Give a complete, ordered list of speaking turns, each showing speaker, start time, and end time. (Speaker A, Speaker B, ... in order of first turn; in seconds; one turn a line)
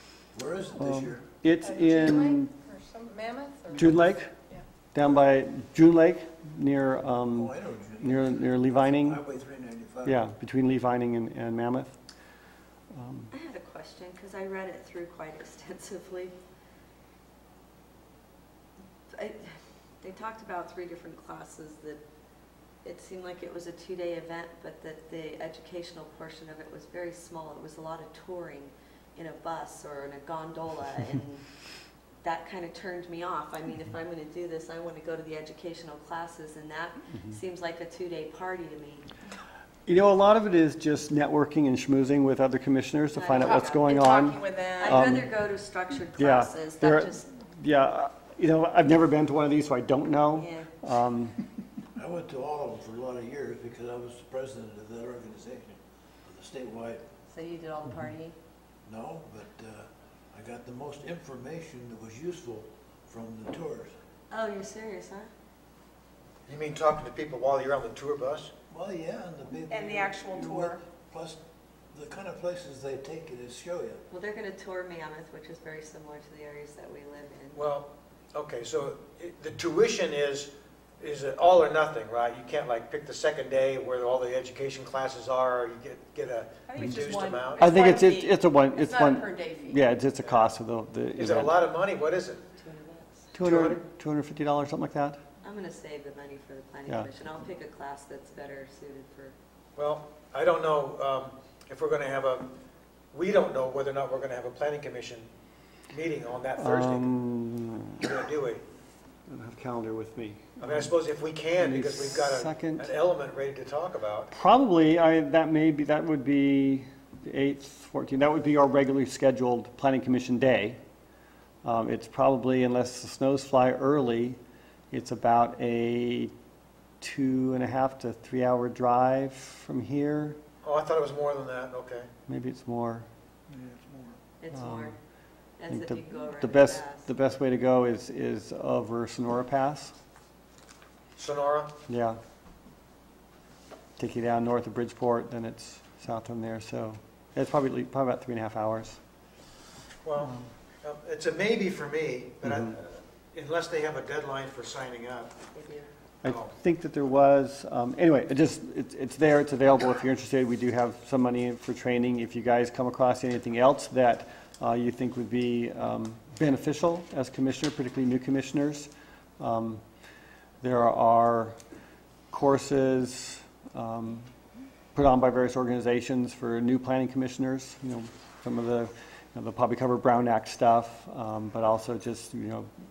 Speaker A: 0.3-1.2
Speaker B: 0.8-2.5
Speaker C: 1.6-4.6
Speaker B: 3.7-4.3
Speaker B: 4.9-9.2
Speaker A: 7.3-10.2
Speaker B: 10.0-11.9
Speaker B: 12.9-13.3
Speaker D: 13.3-16.3
Speaker D: 19.1-19.5
Speaker D: 20.0-22.0
Speaker D: 22.8-31.4
Speaker D: 32.2-39.1
Speaker B: 39.9-45.3
Speaker D: 43.1-43.9
Speaker C: 43.4-45.2
Speaker D: 44.8-47.2
Speaker B: 46.1-51.4
Speaker D: 50.3-50.7
Speaker A: 52.0-57.0
Speaker D: 57.3-58.4
Speaker A: 58.9-64.0
Speaker D: 64.3-65.3
Speaker E: 66.5-68.5
Speaker A: 68.7-71.4
Speaker C: 69.7-70.8
Speaker A: 71.9-74.0
Speaker D: 74.1-77.6
Speaker E: 77.5-87.7
Speaker C: 86.7-89.8
Speaker B: 87.6-91.5
Speaker E: 90.2-90.5
Speaker E: 91.2-92.4
Speaker D: 92.6-93.3
Speaker B: 93.3-95.2
Speaker E: 93.4-93.8
Speaker D: 95.4-99.3
Speaker E: 99.8-102.5
Speaker E: 103.1-105.3
Speaker E: 105.9-107.1
Speaker B: 106.5-108.1
Speaker E: 108.0-108.6
Speaker B: 109.3-110.9
Speaker E: 110.6-114.3
Speaker B: 111.6-112.9
Speaker B: 114.3-120.8
Speaker B: 121.6-124.4
Speaker B: 124.9-126.3
Speaker B: 127.0-130.4
Speaker E: 130.6-132.1
Speaker B: 132.3-133.1
Speaker E: 133.5-134.1
Speaker D: 134.4-134.9
Speaker B: 134.5-134.9
Speaker D: 135.6-137.1
Speaker B: 135.7-139.9
Speaker E: 141.2-141.7
Speaker B: 141.9-142.2
Speaker B: 144.0-149.0
Speaker E: 150.0-155.3
Speaker B: 152.4-152.7
Speaker D: 155.5-155.9
Speaker B: 156.2-169.8
Speaker E: 156.2-156.5
Speaker B: 170.6-171.6
Speaker B: 172.3-174.3
Speaker B: 174.9-182.7